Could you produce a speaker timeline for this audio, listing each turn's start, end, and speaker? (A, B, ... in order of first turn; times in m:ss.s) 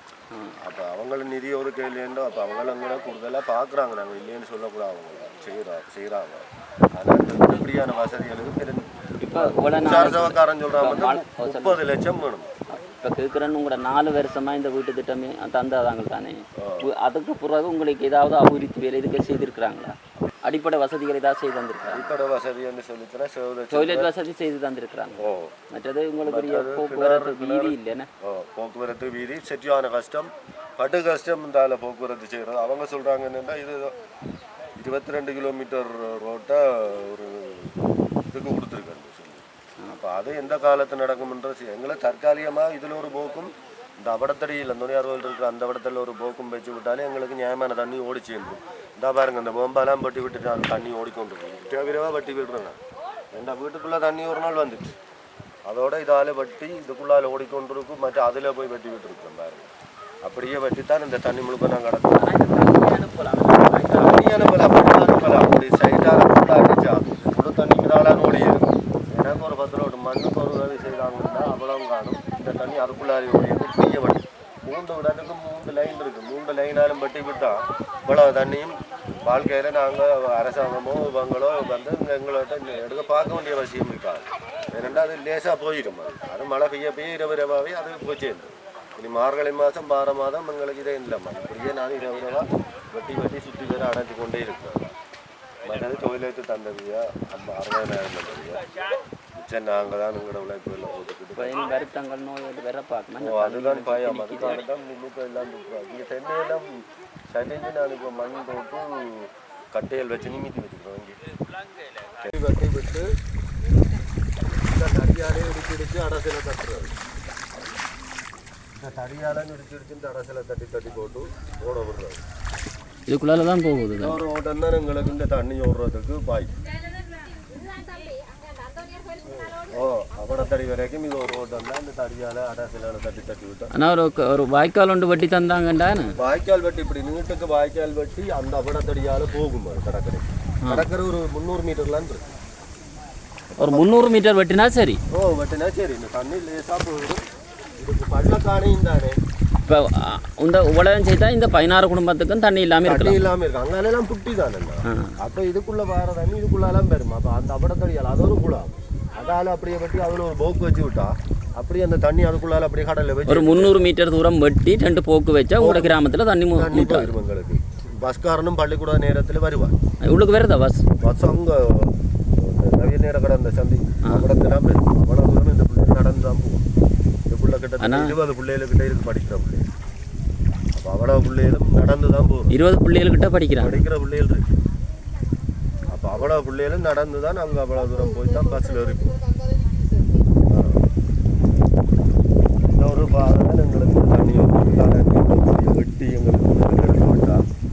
0:00.3-0:00.6 A
0:00.6-0:12.6 B
0:09.2-0:11.8 A
0:12.7-0:22.2 A
0:16.6-0:16.9 B
0:21.9-0:24.1 B
0:23.7-0:28.1 A
0:25.2-0:25.5 B
0:26.2-0:33.9 B
0:34.8-0:37.8 B
0:38.3-0:52.8 B
0:53.3-0:55.0 B
0:55.7-0:59.7 B
1:00.2-1:02.2 B
1:02.1-1:04.7 A
1:03.9-1:34.9 B
1:35.6-1:38.6 B
1:39.4-1:41.6 B
1:41.4-1:44.6 A
1:43.2-1:51.2 B
1:52.2-1:53.1 B
1:54.6-1:56.9 B
1:58.8-2:02.2 B
2:03.1-2:04.2 A
2:04.0-2:06.5 B
2:09.4-2:13.7 B
2:13.7-2:16.2 A
2:16.2-2:22.2 B
2:23.5-2:23.9 B
2:23.6-2:25.0 A
2:25.1-2:27.3 B
2:27.8-2:29.2 B
2:29.7-2:33.2 A
2:32.8-2:43.9 B
2:34.9-2:35.2 A
2:43.3-2:47.1 A
2:45.6-2:46.0 B
2:46.5-2:49.8 B
2:50.0-2:50.9 A
2:51.0-2:56.7 B
2:57.3-2:59.6 B
2:57.8-2:58.2 A
3:00.8-3:02.6 B
3:02.5-3:03.8 A
3:03.6-3:04.5 B
3:05.9-3:09.2 B
3:10.5-3:10.8 B
3:12.8-3:17.4 B